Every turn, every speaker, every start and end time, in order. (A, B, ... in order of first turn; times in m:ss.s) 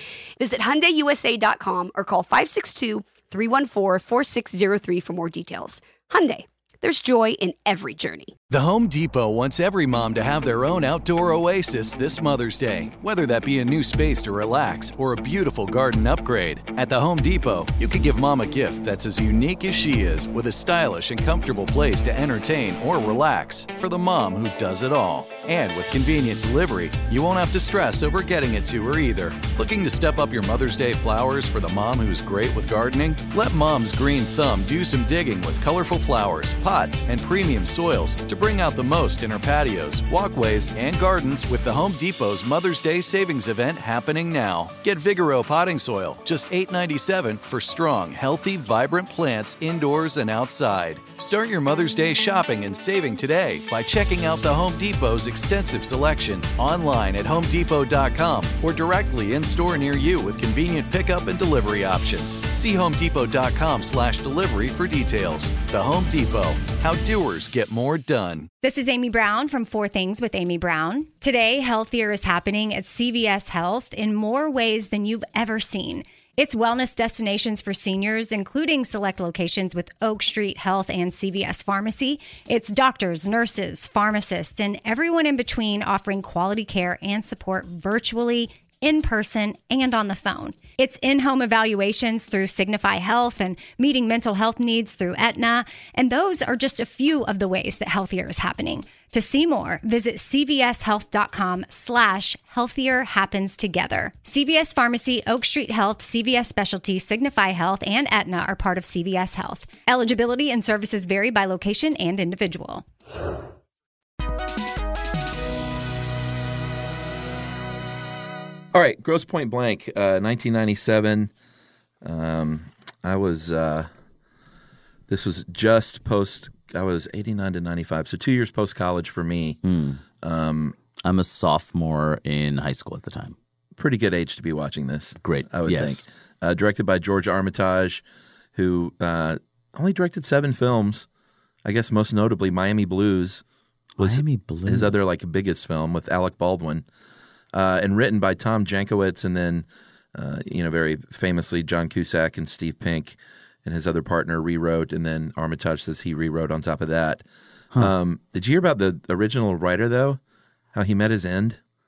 0:00.4-0:08.3 A
0:08.5-1:08.5 B
1:08.6-1:52.8 C
1:58.7-2:01.3 D
2:02.0-2:03.9 D
2:05.1-2:09.6 D
2:09.6-2:10.0 E
2:10.2-2:10.8 D
2:11.0-2:13.4 E
2:13.8-2:18.0 D
2:15.2-2:16.0 E
2:18.5-2:21.1 D
2:21.6-2:23.4 D
2:24.0-2:25.0 E
2:24.0-2:26.8 D
2:27.5-2:37.2 D
2:37.8-2:40.2 D
2:40.7-2:41.6 D